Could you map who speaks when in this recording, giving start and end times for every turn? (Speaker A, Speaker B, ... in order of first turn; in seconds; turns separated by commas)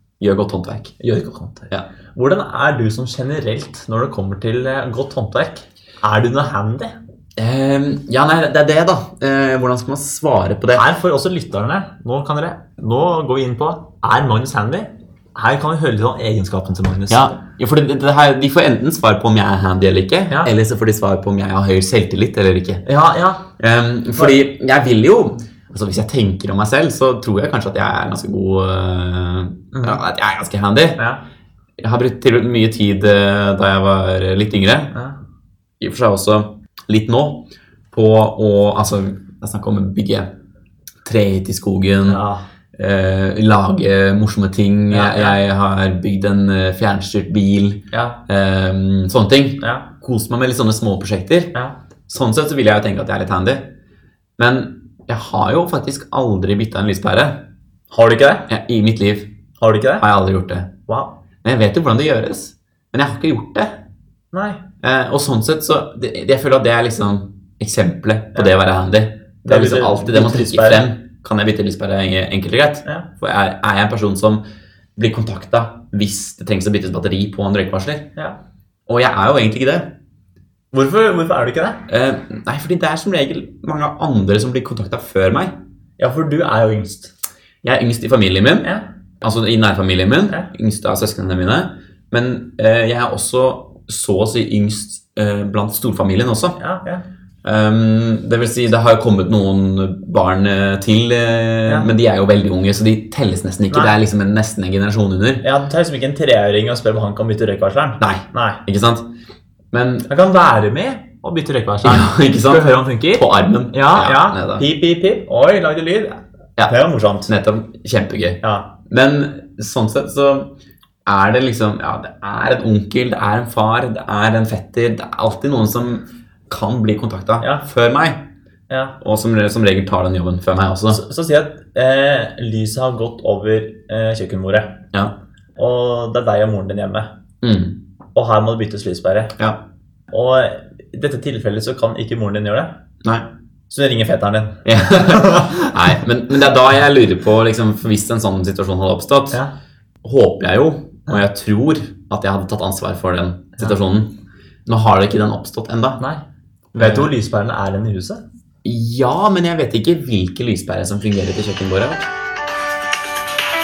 Speaker A: 0.2-1.0, Speaker B: 1.0-6.9, Speaker A: 7.4-10.9, Speaker B: 10.7-17.2, Speaker A: 17.1-22.8, Speaker B: 22.8-23.4, Speaker A: 23.6-31.0, Speaker B: 29.7-30.0, Speaker A: 31.8-34.9, Speaker A: 35.8-40.3, Speaker A: 41.0-42.2, Speaker B: 42.0-42.4, Speaker A: 42.8-51.5, Speaker B: 44.9-45.4, Speaker B: 47.9-48.2, Speaker B: 49.6-49.9, Speaker A: 52.1-53.7, Speaker A: 54.4-57.4, Speaker B: 57.9-58.5, Speaker A: 58.5-59.3, Speaker B: 59.6-60.0, Speaker A: 60.0-60.7, Speaker B: 60.9-61.1, Speaker A: 61.4-63.7, Speaker B: 64.3-64.6, Speaker A: 64.8-74.4, Speaker B: 69.4-70.8, Speaker A: 75.0-78.1, Speaker A: 78.9-79.9, Speaker B: 80.7-81.8, Speaker A: 81.9-85.5, Speaker B: 86.0-87.1, Speaker A: 87.6-96.6, Speaker B: 96.6-97.0, Speaker A: 97.4-105.4, Speaker B: 103.7-104.0, Speaker B: 105.4-108.6, Speaker A: 108.0-109.0, Speaker A: 109.7-110.1, Speaker B: 110.1-117.3, Speaker A: 111.8-114.6, Speaker A: 117.3-120.5, Speaker B: 118.4-118.7, Speaker A: 121.0-128.2, Speaker B: 128.7-129.0, Speaker A: 129.0-131.0, Speaker B: 130.9-134.8, Speaker B: 135.6-137.1, Speaker A: 137.4-137.8, Speaker B: 138.1-139.3, Speaker B: 140.1-142.8, Speaker B: 143.7-146.0, Speaker A: 144.6-149.4, Speaker A: 150.0-154.1, Speaker A: 154.7-156.0, Speaker B: 156.0-156.2, Speaker B: 156.7-158.2, Speaker A: 156.8-157.1, Speaker A: 158.6-162.1